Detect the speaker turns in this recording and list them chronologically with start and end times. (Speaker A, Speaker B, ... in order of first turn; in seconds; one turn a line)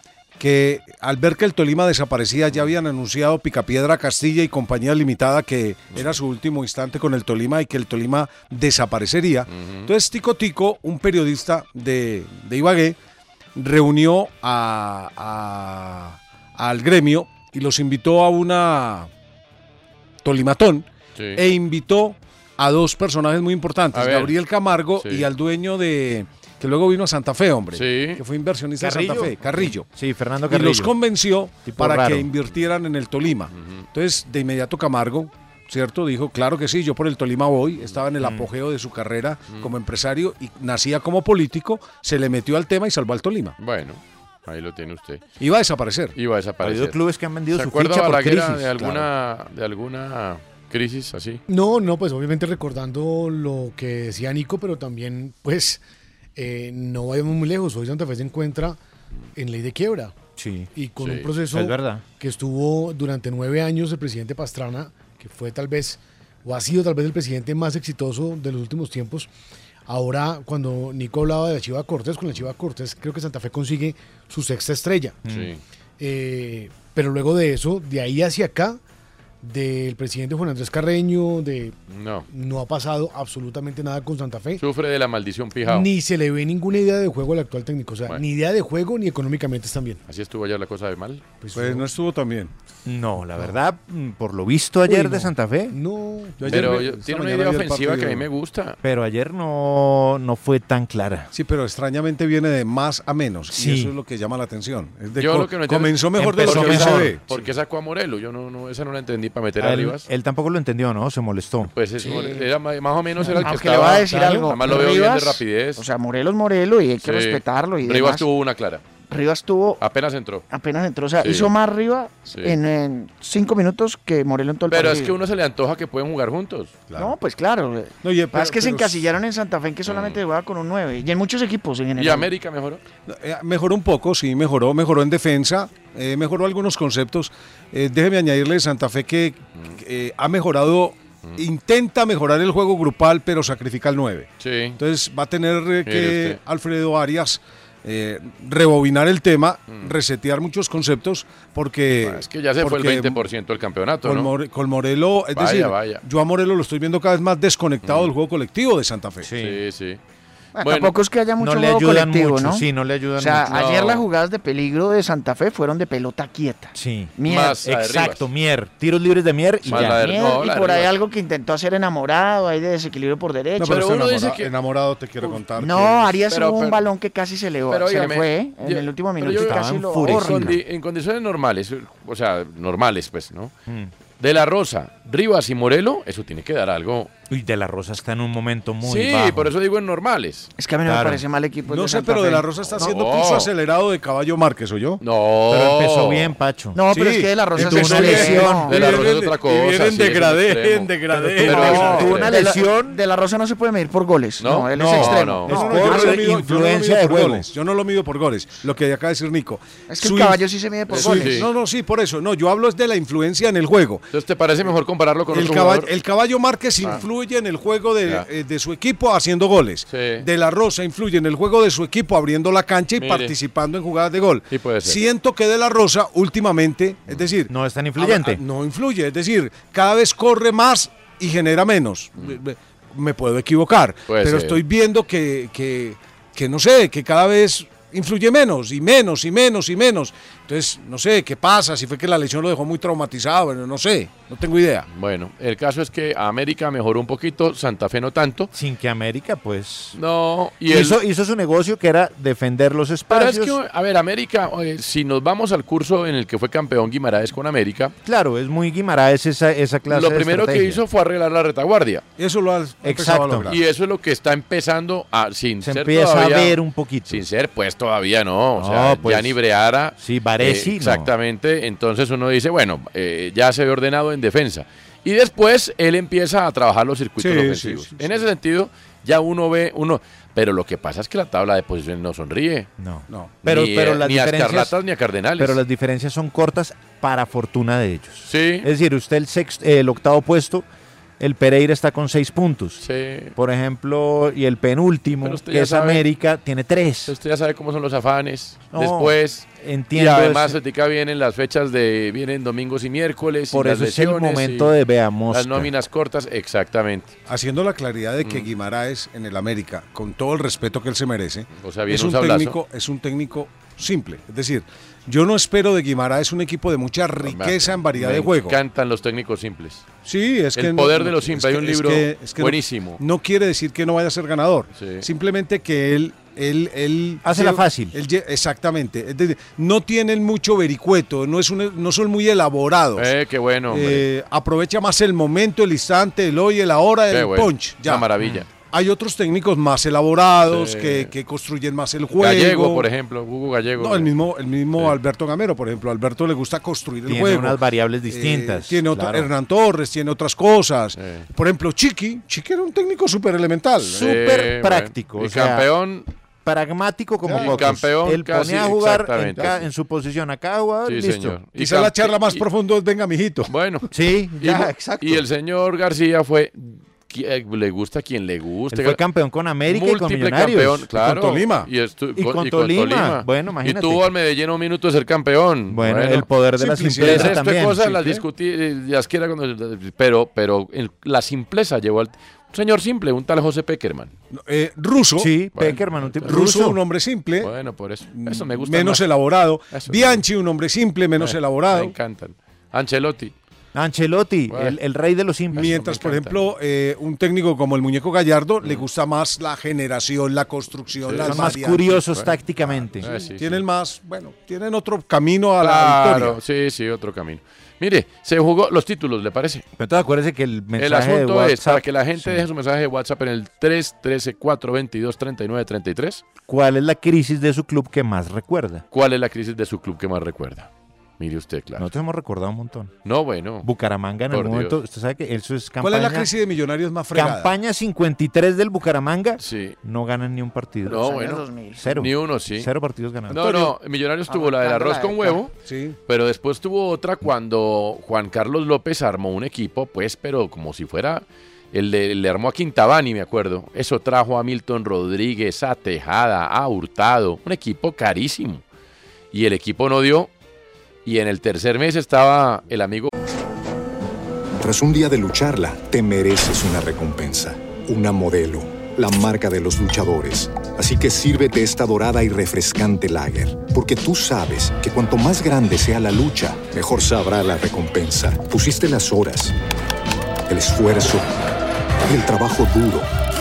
Speaker A: 0.4-13.0
Speaker B: 9.5-9.9
Speaker A: 13.6-19.1
Speaker A: 20.2-29.9
Speaker B: 21.2-21.4
Speaker B: 23.9-24.3
Speaker B: 25.0-25.3
Speaker B: 27.7-28.2
Speaker C: 28.8-30.9
Speaker A: 30.5-43.6
Speaker C: 31.6-32.3
Speaker B: 33.5-33.9
Speaker C: 38.2-38.5
Speaker B: 43.6-45.2
Speaker A: 45.4-46.1
Speaker B: 46.1-47.0
Speaker C: 46.6-49.1
Speaker B: 47.5-51.4
Speaker D: 51.5-55.8
Speaker D: 56.4-58.8
Speaker D: 59.4-60.1
Speaker C: 60.4-60.7
Speaker D: 60.8-69.3
Speaker B: 61.0-61.3
Speaker C: 61.5-62.0
Speaker D: 69.9-75.2
Speaker C: 75.3-75.5
Speaker B: 75.3-75.6
Speaker D: 76.0-78.8
Speaker D: 79.4-81.8
Speaker B: 81.9-82.3
Speaker D: 82.3-84.6
Speaker B: 84.6-85.9
Speaker D: 85.7-90.0
Speaker B: 90.1-91.2
Speaker D: 91.4-91.9
Speaker A: 91.5-92.5
Speaker C: 92.9-95.8
Speaker D: 94.9-96.9
Speaker A: 96.4-98.3
Speaker B: 96.5-98.8
Speaker C: 98.8-101.3
Speaker A: 101.3-107.5
Speaker C: 103.5-103.9
Speaker B: 105.2-110.1
Speaker C: 106.2-107.2
Speaker C: 109.6-111.7
Speaker B: 111.7-115.8
Speaker E: 113.4-118.3
Speaker C: 113.5-113.9
Speaker D: 114.1-114.5
Speaker B: 117.0-118.8
Speaker E: 119.1-119.8
Speaker B: 119.8-120.4
Speaker E: 120.5-125.2
Speaker B: 121.2-121.5
Speaker B: 124.7-126.7
Speaker E: 127.0-132.3
Speaker A: 128.0-129.1
Speaker B: 129.9-130.2
Speaker B: 132.0-132.8
Speaker A: 133.1-153.2
Speaker B: 144.4-144.8
Speaker B: 145.8-146.4
Speaker B: 151.9-154.3
Speaker A: 154.0-159.3
Speaker B: 155.3-156.0
Speaker B: 157.8-158.1
Speaker C: 159.2-159.6
Speaker B: 159.4-160.0
Speaker E: 160.6-162.7
Speaker B: 160.6-160.9
Speaker C: 161.4-163.7
Speaker E: 163.2-167.6
Speaker B: 163.5-164.1
Speaker C: 166.7-170.1
Speaker B: 167.3-168.3
Speaker B: 169.7-170.9
Speaker E: 169.7-173.9
Speaker A: 173.6-176.2
Speaker B: 173.6-174.5
Speaker E: 175.6-180.6
Speaker B: 176.3-176.8
Speaker B: 177.7-183.5
Speaker C: 179.3-180.6
Speaker B: 184.2-187.1
Speaker C: 187.3-189.5
Speaker B: 188.8-190.5
Speaker E: 190.6-192.7
Speaker C: 190.8-191.2
Speaker A: 191.7-195.0
Speaker B: 192.8-193.5
Speaker B: 195.0-196.3
Speaker C: 195.5-196.8
Speaker E: 196.7-199.0
Speaker A: 196.9-202.2
Speaker C: 197.6-198.7
Speaker B: 198.6-202.3
Speaker C: 201.1-203.0
Speaker E: 201.6-206.3
Speaker B: 204.4-205.5
Speaker C: 204.8-207.5
Speaker A: 205.5-214.0
Speaker E: 209.9-211.5
Speaker B: 210.9-211.5
Speaker B: 214.1-215.9
Speaker A: 215.3-244.9
Speaker B: 219.9-220.2
Speaker B: 223.0-223.3
Speaker B: 224.5-225.0
Speaker C: 227.5-228.4
Speaker B: 234.1-234.6
Speaker B: 244.9-248.5
Speaker C: 248.5-250.0
Speaker B: 249.9-251.0
Speaker C: 250.7-253.6
Speaker B: 253.1-257.9
Speaker C: 258.1-260.8
Speaker B: 259.9-262.0
Speaker A: 262.2-263.6
Speaker C: 262.8-263.5
Speaker B: 263.5-282.7
Speaker C: 265.6-267.2
Speaker C: 268.6-269.4
Speaker C: 270.0-271.1
Speaker A: 277.2-278.3
Speaker C: 282.8-284.8
Speaker B: 283.4-285.6
Speaker C: 285.4-290.7
Speaker B: 288.3-288.7
Speaker C: 291.2-292.8
Speaker B: 292.8-293.3
Speaker C: 293.4-297.1
Speaker B: 295.2-296.0
Speaker B: 297.1-304.7
Speaker C: 298.7-300.6
Speaker C: 303.5-305.7
Speaker B: 305.3-307.1
Speaker A: 307.3-318.6
Speaker B: 308.2-308.5
Speaker B: 311.6-312.6
Speaker B: 317.2-319.8
Speaker A: 320.1-333.1
Speaker B: 320.6-323.0
Speaker B: 324.8-325.1
Speaker C: 327.2-328.0
Speaker B: 333.0-334.1
Speaker A: 333.7-338.1
Speaker B: 337.1-338.5
Speaker C: 338.2-338.4
Speaker A: 338.6-342.9
Speaker B: 340.5-341.1
Speaker B: 342.2-344.1
Speaker A: 343.8-354.1
Speaker C: 347.1-349.3
Speaker B: 351.0-351.3
Speaker C: 353.8-355.7
Speaker B: 353.9-356.1
Speaker C: 356.4-361.4
Speaker A: 357.2-357.6
Speaker B: 357.3-359.7
Speaker B: 360.9-362.5
Speaker A: 361.6-363.5
Speaker B: 363.5-369.0
Speaker C: 363.9-365.2
Speaker C: 368.7-370.9
Speaker B: 369.7-376.3
Speaker A: 370.9-371.7
Speaker C: 372.2-374.1
Speaker C: 375.7-378.2
Speaker A: 376.6-377.4
Speaker B: 377.0-384.1
Speaker A: 384.3-385.3
Speaker C: 385.2-386.8
Speaker B: 385.5-386.4
Speaker A: 386.2-387.5
Speaker B: 387.4-389.1
Speaker A: 388.1-391.9
Speaker B: 389.7-390.2
Speaker B: 391.2-393.3
Speaker C: 393.7-396.0
Speaker B: 394.5-394.8
Speaker B: 395.5-396.4
Speaker A: 395.6-402.0
Speaker B: 401.0-402.4
Speaker C: 401.2-403.1
Speaker B: 403.0-403.6
Speaker A: 403.0-406.4
Speaker B: 405.6-409.7
Speaker C: 409.8-412.5
Speaker B: 410.8-416.2
Speaker C: 416.5-418.9
Speaker B: 418.9-421.9
Speaker C: 421.8-422.9
Speaker B: 423.1-423.7
Speaker C: 423.6-426.3
Speaker B: 424.3-424.8
Speaker A: 425.8-427.5
Speaker C: 427.1-431.1
Speaker B: 429.4-429.8
Speaker B: 430.9-432.7
Speaker E: 430.9-431.8
Speaker C: 431.8-433.4
Speaker B: 433.3-435.5
Speaker A: 433.3-433.7
Speaker E: 434.3-435.4
Speaker A: 435.7-436.0
Speaker B: 436.1-448.6
Speaker B: 449.3-450.3
Speaker B: 451.1-453.1
Speaker F: 454.6-469.6
Speaker F: 470.5-471.3
Speaker F: 472.1-473.1